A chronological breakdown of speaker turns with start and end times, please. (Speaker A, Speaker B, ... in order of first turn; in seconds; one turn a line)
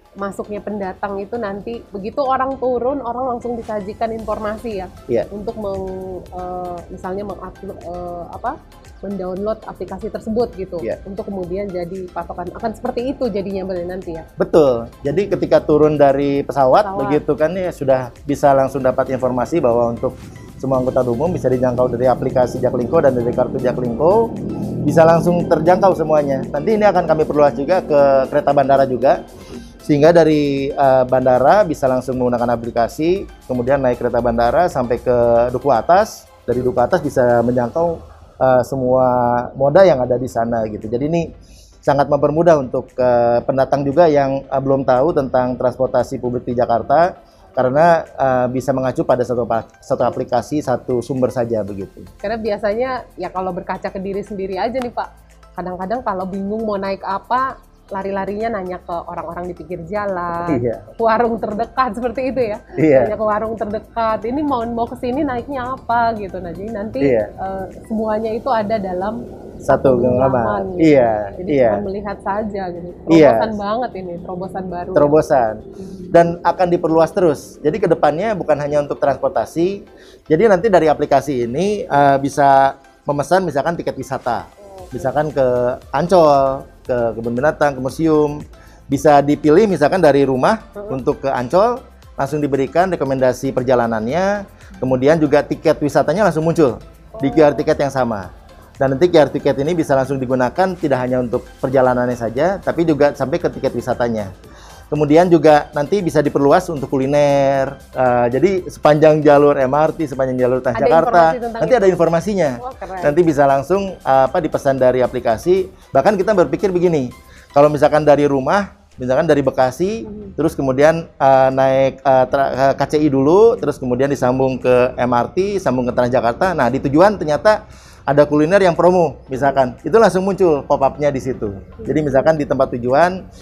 Speaker A: 0.2-14.2
Speaker B: 14.4-24.3
Speaker A: 16.8-17.2
Speaker B: 24.8-29.2
Speaker B: 29.8-41.3
Speaker B: 41.8-52.1
Speaker A: 52.2-75.2
Speaker B: 60.4-60.9
Speaker B: 62.8-63.1
Speaker B: 67.0-67.3
Speaker B: 69.7-71.8
Speaker B: 73.1-73.5
Speaker B: 74.9-98.3
Speaker A: 84.8-85.2
Speaker A: 97.2-97.7
Speaker B: 98.8-104.3
Speaker B: 104.9-127.6
Speaker A: 110.7-112.0
Speaker A: 112.6-113.2
Speaker A: 120.0-120.3
Speaker B: 128.1-133.2
Speaker A: 131.8-132.1